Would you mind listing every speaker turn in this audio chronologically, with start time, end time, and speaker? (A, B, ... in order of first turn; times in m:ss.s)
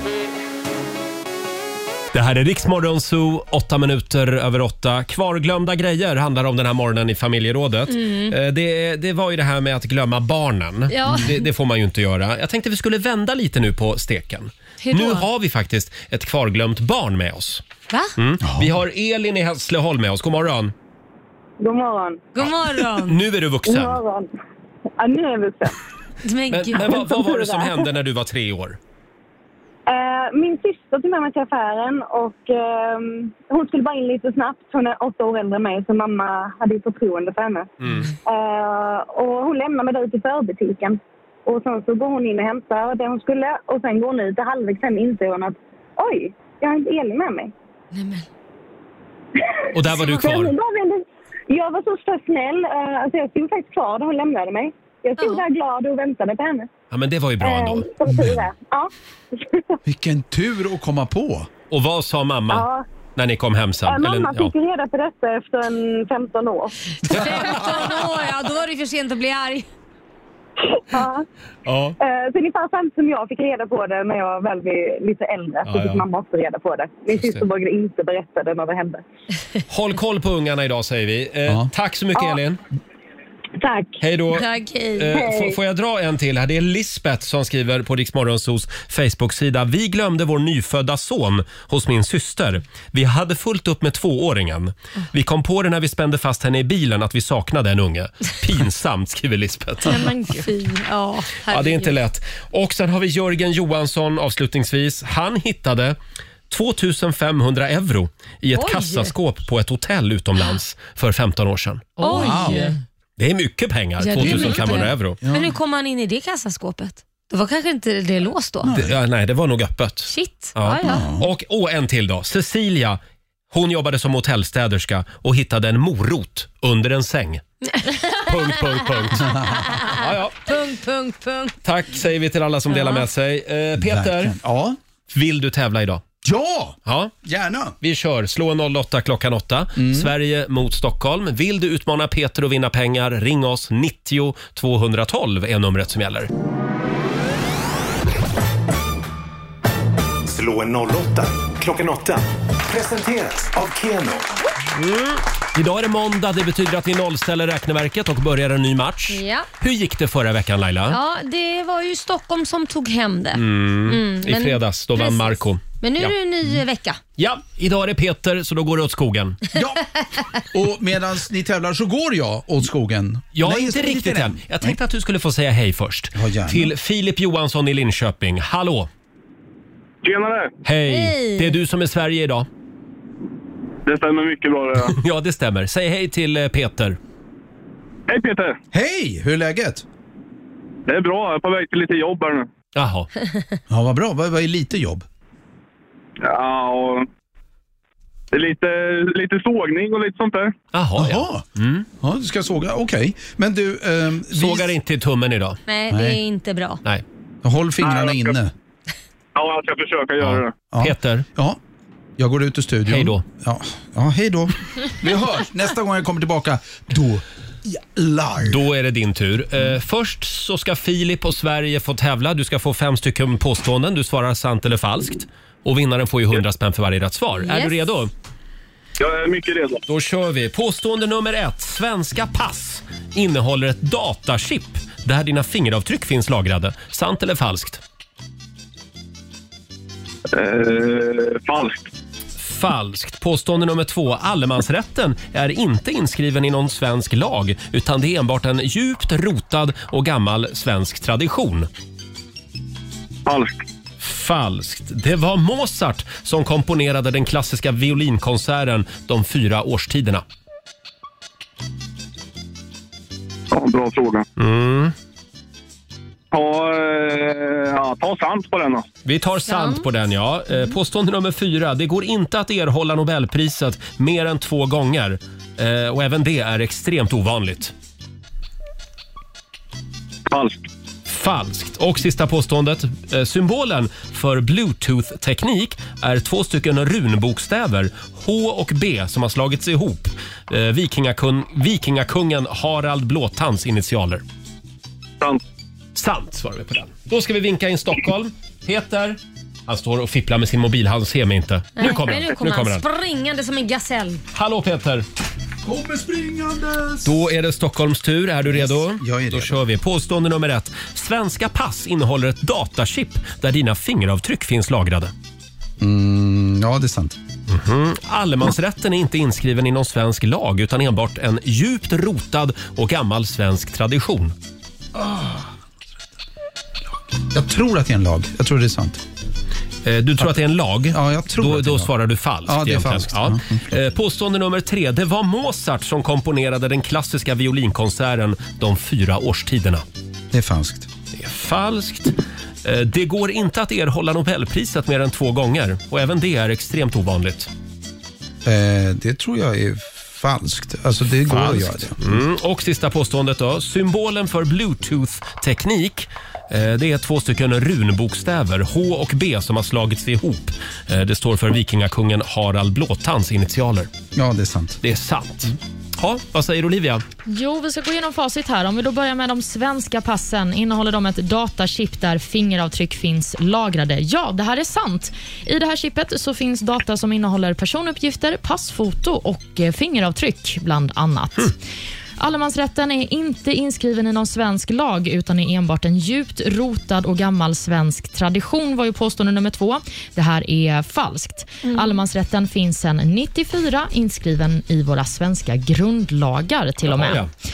0:02.1-0:17.6 A
0:07.9-0:08.3 B
0:10.9-0:11.4 B
0:14.8-0:15.3 B
0:17.9-0:18.1 B
0:18.2-0:20.7 A
0:18.4-0:18.8 C
0:21.6-0:22.2 D
0:22.3-0:23.2 B
0:23.0-0:24.0 A
0:23.6-0:24.3 D
0:25.0-0:25.8 D
0:26.2-0:27.0 B
0:26.5-0:28.8 A
0:27.0-0:27.8 D
0:29.9-0:37.7 D
0:37.8-0:38.1 A
0:38.2-0:47.5 D
0:47.9-0:48.3 B
0:49.7-0:50.5 A
0:49.8-0:56.7 D
0:56.9-0:58.4 A
0:57.4-0:59.6 D
0:59.8-1:01.5 C
1:01.7-1:04.5 A
1:02.5-1:02.8 D
1:03.8-1:06.8 D
1:07.0-1:09.7 B
1:07.1-1:08.0 A
1:10.7-1:11.2 D
1:11.6-1:11.9 A
1:12.0-1:19.0 D
1:15.7-1:16.0 A
1:19.7-1:22.6 A
1:23.6-1:24.0 D
1:24.0-1:24.4 A
1:24.3-1:25.2 B
1:25.0-1:40.0 A
1:25.2-1:25.5 D
1:39.8-1:41.9 B
1:41.5-1:46.0 A
1:46.5-1:52.0 A
1:48.5-1:49.1 B
1:52.0-1:52.7 E
1:52.0-1:52.7 B
1:52.1-1:52.6 C
1:53.2-1:55.2 A
1:54.0-1:58.7 B
1:54.1-1:55.5 C
1:58.6-1:58.9 C
1:58.7-2:03.0 A
2:00.1-2:01.1 B
2:00.8-2:01.3 C
2:03.5-2:07.4 A
2:07.7-2:08.3 B
2:08.1-2:10.5 A
2:09.2-2:11.5 B
2:11.6-2:14.4 A
2:12.7-2:13.0 B
2:13.8-2:14.8 C
2:15.1-2:16.0 A
2:16.2-2:17.8 C
2:16.8-2:17.1 A
2:17.8-2:26.3 A
2:19.8-2:20.1 C
2:30.3-2:32.2 F
2:30.9-2:31.2 C
2:32.7-2:34.1 C
2:32.8-2:33.9 F
2:34.7-2:41.0 A
2:39.1-2:39.5 B
2:40.9-2:47.0 B
2:43.3-2:46.1 A
2:47.2-2:49.4 A
2:49.5-2:54.8 C
2:53.3-2:58.9 A
2:56.1-2:56.7 C
3:00.0-3:00.5 G
3:00.6-3:02.5 A
3:00.9-3:01.6 B
3:03.8-3:05.0 G
3:04.8-3:07.0 A
3:08.1-3:08.6 G
3:08.7-3:09.8 C
3:10.9-3:12.5 G
3:12.7-3:13.1 A
3:13.7-3:15.0 C
3:16.2-3:17.0 G
3:18.3-3:20.5 G
3:20.7-3:21.9 A
3:21.0-3:21.4 C
3:22.0-3:24.8 C
3:24.3-3:25.6 A
3:25.7-3:26.8 B
3:25.9-3:26.2 C
3:27.4-3:28.5 C
3:27.8-3:28.4 G
3:29.3-3:30.5 G
3:30.2-3:31.2 A
3:30.7-3:31.6 C
3:32.2-3:38.6 C
3:32.9-3:33.2 A
3:38.4-3:48.1 A
3:47.4-3:47.9 B
3:49.0-3:49.8 G
3:49.9-3:57.8 A
4:00.4-4:01.8 G
4:02.4-4:11.7 A
4:13.3-4:13.5 G
4:14.0-4:20.2 A
4:23.5-4:24.2 G
4:24.4-4:24.9 A
4:26.3-4:28.8 G
4:29.0-4:37.7 A
4:29.5-4:29.8 B
4:41.1-4:54.2 A
4:55.9-5:02.8 A
5:01.8-5:04.2 B
5:04.3-5:05.0 A
5:05.6-5:07.2 C
5:07.0-5:15.1 A
5:08.4-5:09.6 C
5:15.8-5:17.2 C
5:17.5-5:24.3 A
5:24.9-5:25.5 C
5:27.1-5:29.0 C
5:29.8-5:39.8 A
5:30.9-5:31.9 C
5:32.4-5:33.8 C
5:40.3-5:40.9 C
5:41.1-5:47.5 A
5:48.4-5:52.1 C
5:51.2-6:03.9 A
6:04.2-6:04.8 C
6:04.8-6:07.0 A
6:07.3-6:21.5 E
6:22.2-6:37.3 E
6:36.8-6:37.3 A